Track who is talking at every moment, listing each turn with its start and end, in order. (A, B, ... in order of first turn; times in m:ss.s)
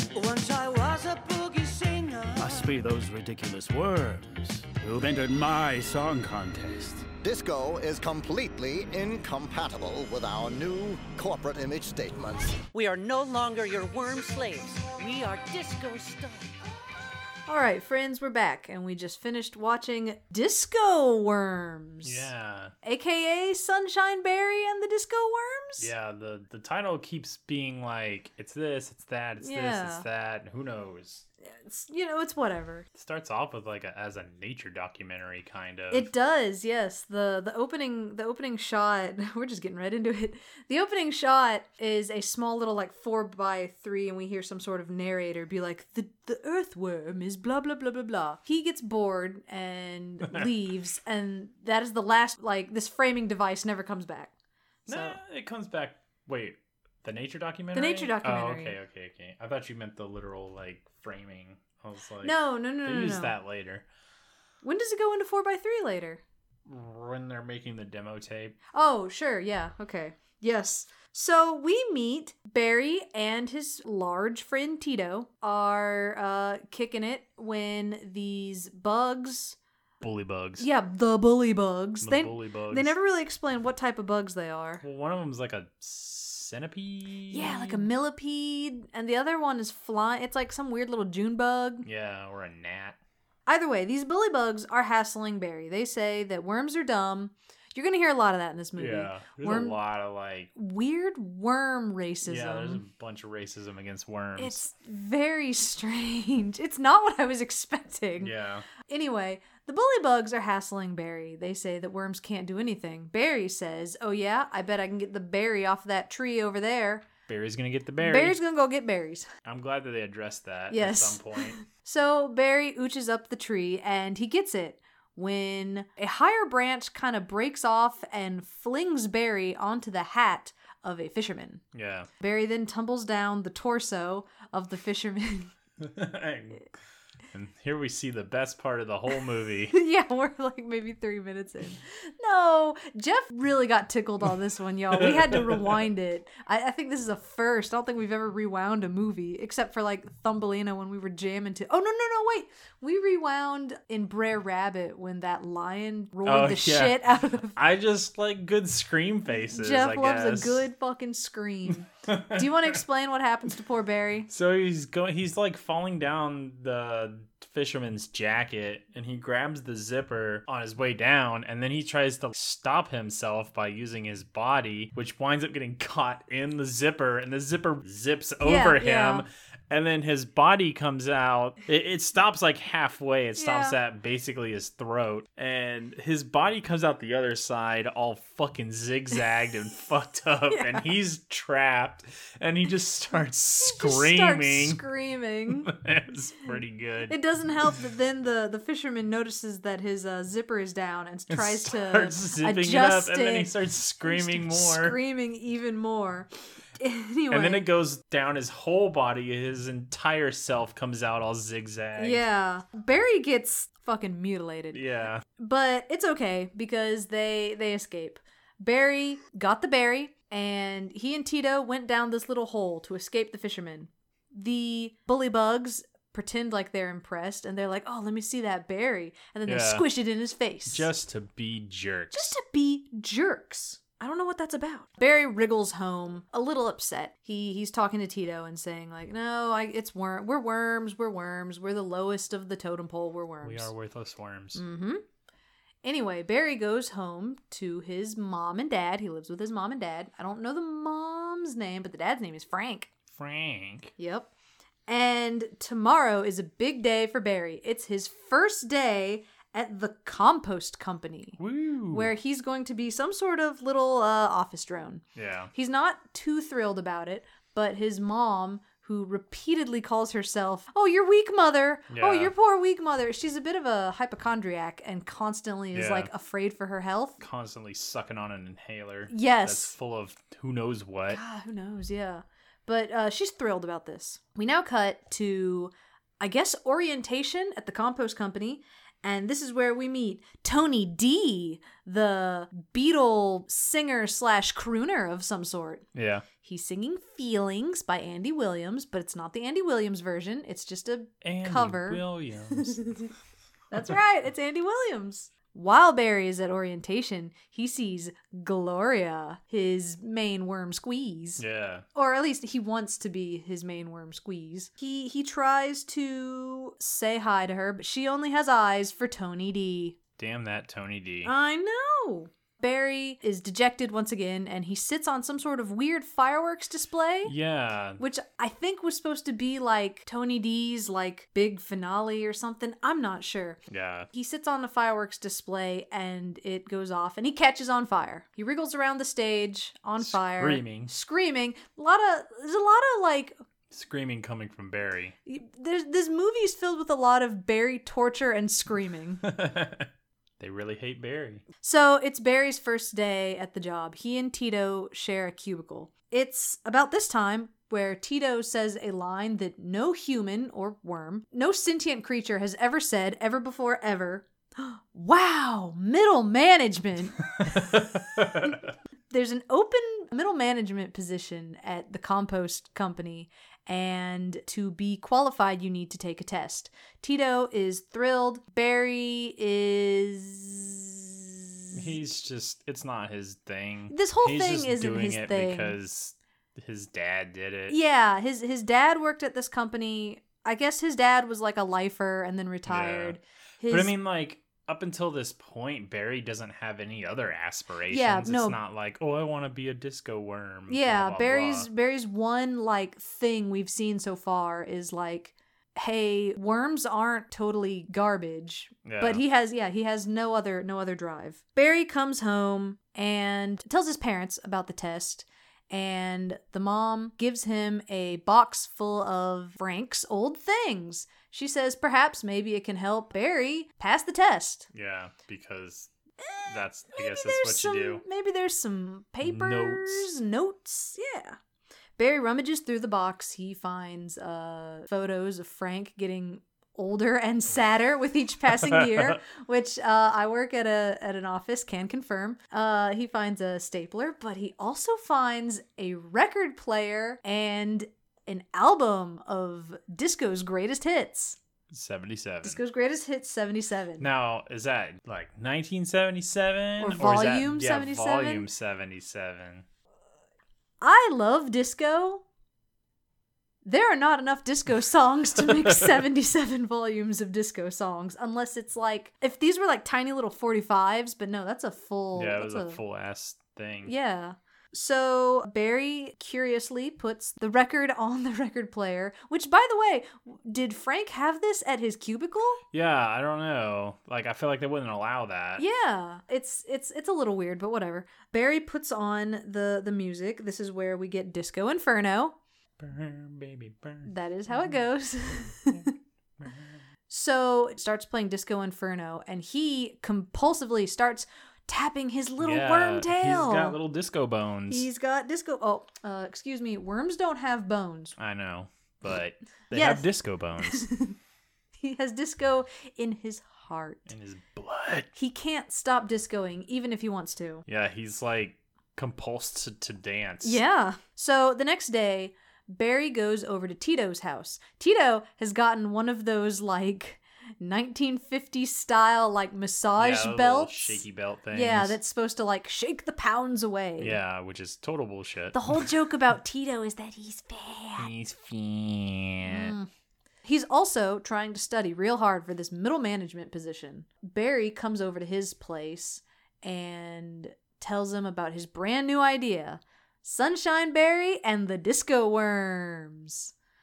0:00.1-0:02.7 A
0:02.4-0:07.1 B
0:07.2-0:12.6 C
0:12.7-0:16.5 A
0:17.5-0:22.3 D
0:22.0-0:22.7 E
0:22.8-0:25.9 D
0:25.8-0:31.2 E
0:29.4-0:30.0 D
0:31.4-0:32.8 D
0:32.9-0:36.1 E
0:35.9-0:54.3 D
0:54.9-0:55.2 D
0:54.9-1:03.8 E
0:57.7-0:58.8 D
1:02.2-1:03.3 D
1:04.6-1:06.2 D
1:06.6-1:08.6 E
1:08.7-1:19.6 D
1:20.0-1:20.7 E
1:20.6-1:24.8 D
1:22.0-1:22.9 E
1:24.8-1:27.9 E
1:27.3-1:31.8 D
1:31.8-1:33.0 E
1:33.5-1:39.8 D
1:38.8-1:40.5 E
1:40.5-1:42.8 D
1:42.2-1:44.6 E
1:44.4-1:57.0 D
1:48.2-1:48.7 E
1:57.3-1:58.4 E
1:58.0-1:59.3 D
1:59.4-2:01.6 E
2:00.7-2:11.6 D
2:11.7-2:12.1 E
2:12.2-2:15.5 D
2:15.8-2:16.7 E
2:17.3-2:19.8 E
2:19.7-2:37.6 D
2:24.9-2:25.9 E
2:36.2-2:40.6 E
2:39.5-2:44.3 D
2:42.0-2:42.8 E
2:44.3-3:14.8 E
2:58.4-2:59.2 D
3:03.4-3:03.8 D
3:10.5-3:10.9 D
3:13.6-3:15.7 D
3:15.6-3:17.2 E
3:17.1-3:27.6 D
3:21.3-3:25.0 E
3:27.3-3:32.2 E
3:32.0-3:34.8 D
3:34.7-3:35.2 E
3:35.4-3:50.9 D
3:49.4-3:49.8 E
3:50.7-3:52.4 E
3:52.1-4:03.7 D
4:03.4-4:04.6 E
4:04.5-4:05.0 D
4:05.8-4:12.9 D
4:13.1-4:13.9 E
4:14.0-4:14.3 D
4:14.9-4:21.4 D
4:21.4-4:22.1 E
4:21.9-4:37.2 D
4:25.2-4:25.5 E
4:31.9-4:32.3 E
4:35.7-4:36.1 E
4:37.2-4:41.2 E
4:39.1-4:39.7 D
4:41.1-4:55.8 D
4:55.9-4:56.2 E
4:56.4-5:02.0 D
5:01.2-5:03.0 E
5:02.5-5:03.1 D
5:03.7-5:11.4 D
5:11.4-5:11.8 E
5:11.9-5:20.0 D
5:20.2-5:21.3 E
5:21.2-5:27.3 D
5:27.2-5:28.0 E
5:28.0-5:33.6 D
5:33.7-5:34.1 E
5:34.1-5:43.4 D
5:40.0-5:40.9 E
5:43.7-5:45.1 E
5:45.2-5:49.2 D
5:49.2-5:49.9 E
5:50.4-5:51.4 E
5:51.6-6:08.6 D
6:07.4-6:08.5 E
6:09.1-6:22.0 D
6:21.7-6:27.8 E
6:23.9-6:25.8 D
6:27.7-6:33.9 D
6:32.6-6:41.7 E
6:37.9-6:38.6 D
6:40.7-7:04.7 D
6:48.8-6:49.2 E
7:04.7-7:05.9 E
7:06.2-7:11.4 D
7:06.4-7:08.0 E
7:09.2-7:10.1 E
7:12.0-7:31.4 D
7:18.6-7:19.2 E
7:31.7-7:32.6 E
7:32.4-7:34.1 D
7:34.0-7:39.6 E
7:36.8-7:38.4 D
7:40.8-7:42.2 D
7:43.6-7:52.8 D
7:45.4-7:45.8 E
7:52.1-7:53.9 E
7:53.8-8:02.6 D
8:02.7-8:05.6 E
8:05.6-8:12.4 D
8:12.8-8:14.8 E
8:14.0-8:15.9 D
8:15.4-8:15.8 E
8:16.4-8:16.7 E
8:17.1-8:23.8 D
8:22.4-8:24.9 E
8:24.7-8:28.1 D
8:28.2-8:30.9 E
8:29.7-8:30.1 D
8:30.6-8:31.2 D
8:31.8-8:34.1 D
8:34.1-8:35.1 E
8:35.1-8:37.6 D
8:37.7-8:40.6 E
8:40.4-8:54.2 D
8:50.0-8:52.0 E
8:54.0-8:55.8 E
8:55.5-8:58.1 D
8:58.0-8:59.7 E
8:59.4-8:59.9 D
9:00.4-9:13.5 D